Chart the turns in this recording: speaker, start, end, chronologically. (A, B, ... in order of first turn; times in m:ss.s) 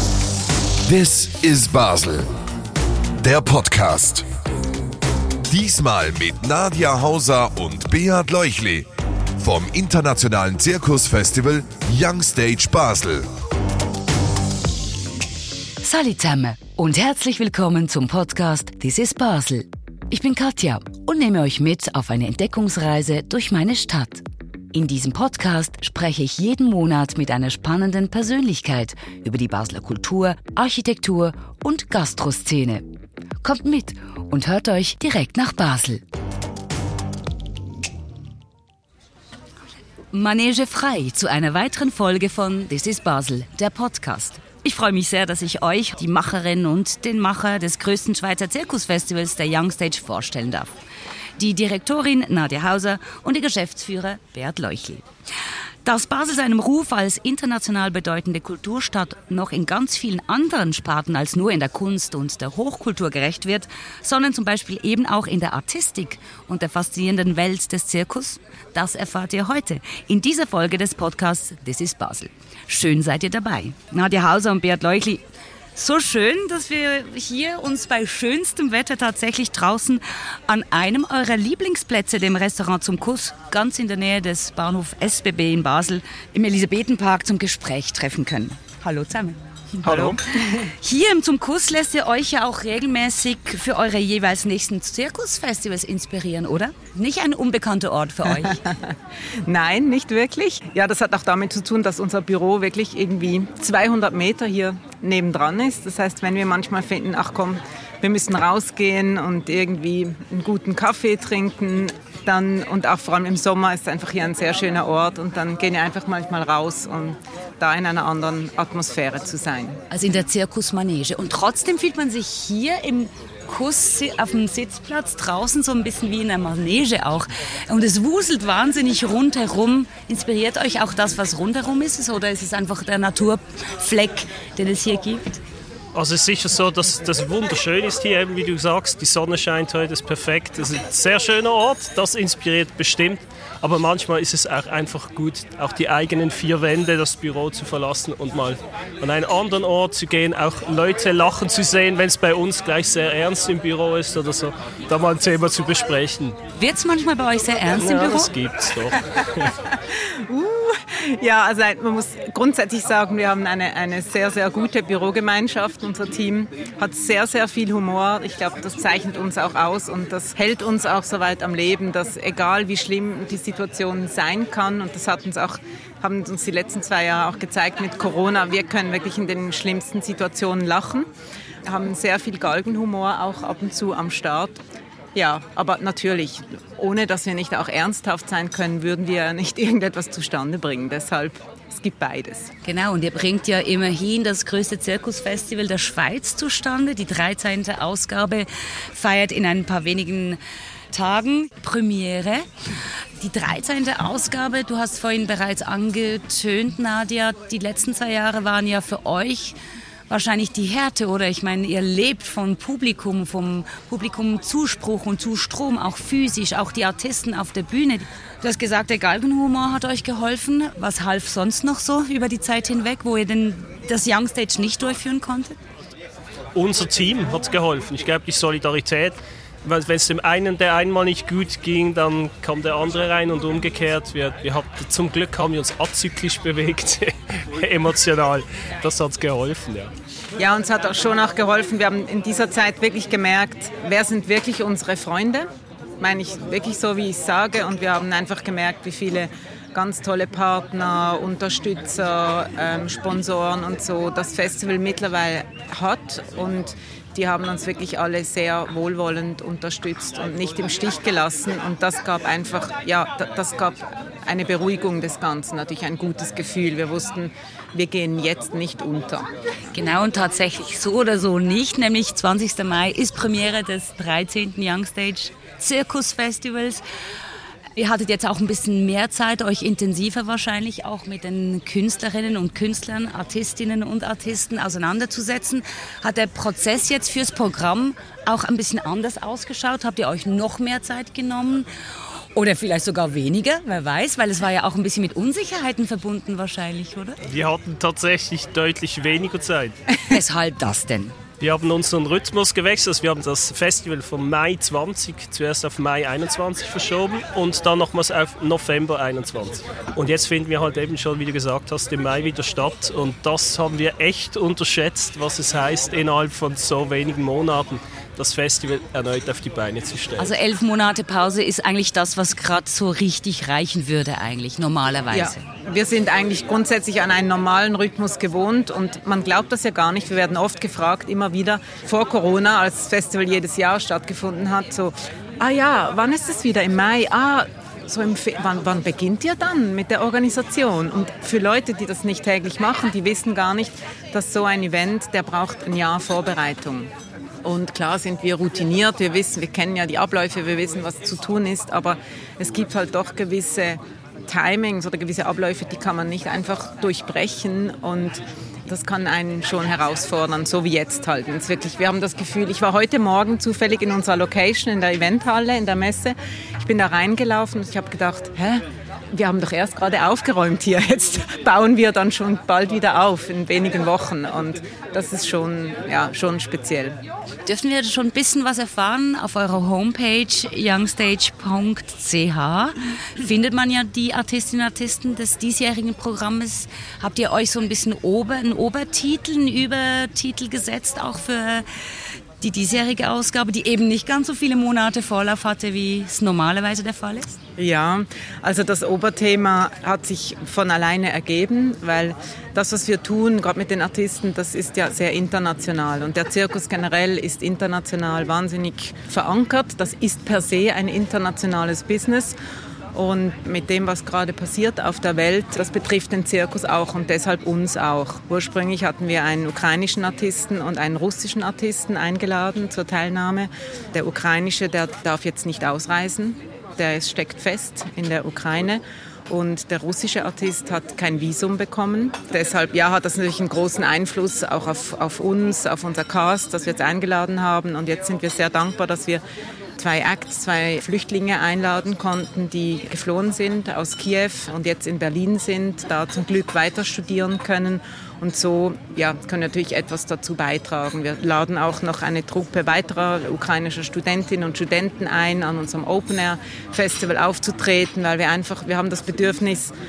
0:00.9-0:02.3 A
0:03.2-0:04.2 A
0:05.5-0:08.9 A
0:09.4-0:13.3 A
0:15.8-0:32.8 B
0:33.4-0:36.0 B
0:40.1-0:50.8 B
0:51.4-0:55.1 B
0:55.8-1:15.2 B
1:15.8-1:38.6 B
1:29.8-1:30.4 C
1:38.4-1:59.8 C
1:59.9-2:15.4 B
2:15.9-2:36.4 D
2:36.6-2:38.3 B
2:37.7-2:39.5 D
2:39.7-3:01.1 C
3:01.6-3:04.6 C
3:05.2-3:12.5 C
3:12.6-3:20.4 B
3:20.9-3:22.5 B
3:23.2-3:29.6 B
3:30.1-3:45.6 B
3:46.6-3:59.9 D
4:00.4-4:05.5 C
4:06.0-4:29.3 C
4:29.7-4:36.8 B
4:37.8-4:51.7 B
4:52.4-4:57.2 B
4:57.2-4:59.8 D
5:00.0-5:01.2 B
5:01.4-5:20.3 D
5:20.2-5:25.4 B
5:25.1-5:46.9 C
5:47.4-6:17.0 C
6:17.5-6:31.7 B
6:32.4-6:37.4 B
6:37.6-6:52.3 C
6:52.9-7:19.2 C
7:19.8-7:39.7 C